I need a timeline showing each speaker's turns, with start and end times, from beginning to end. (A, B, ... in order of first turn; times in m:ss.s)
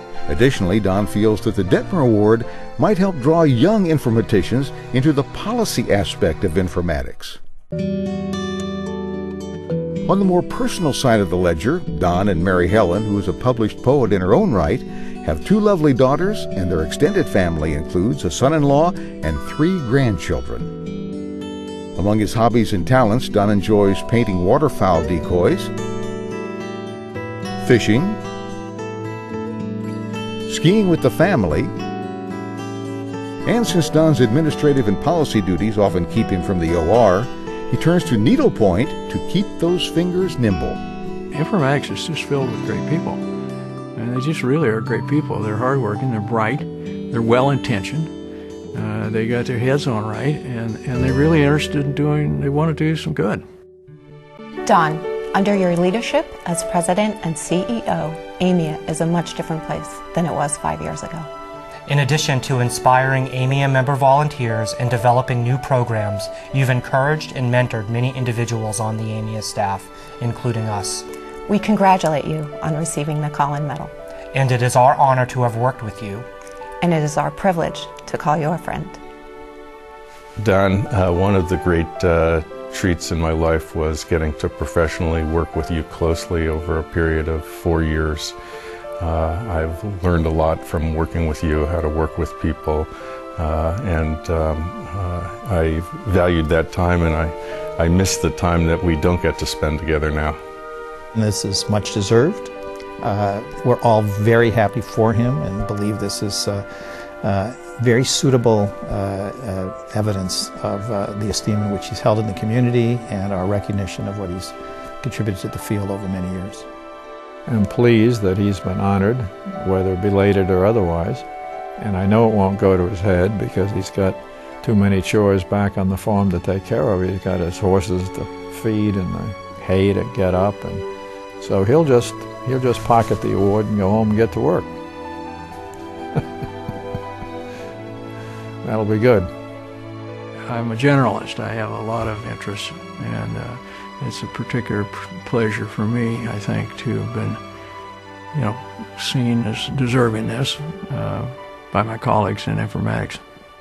0:00.3-0:07.4 A
0:10.1-0:20.7 A
0:22.0-0:25.7 A
0:27.6-0:28.2 A
0:30.5-0:31.7 A
0:33.5-0:40.8 A
0:41.3-0:43.2 B
0:44.0-0:48.1 B
0:48.7-0:53.4 B
0:54.7-1:01.3 C
1:01.9-1:11.1 D
1:11.5-1:13.9 C
1:14.3-1:16.3 D
1:16.8-1:19.0 C
1:20.4-1:28.3 E
1:29.0-1:40.4 E
1:41.2-1:46.6 F
1:47.2-1:56.7 F
1:57.5-2:01.3 G
2:01.8-2:10.9 G
2:11.4-2:14.7 G
2:18.6-2:19.3 G
2:20.5-2:27.4 B
2:28.3-2:33.2 B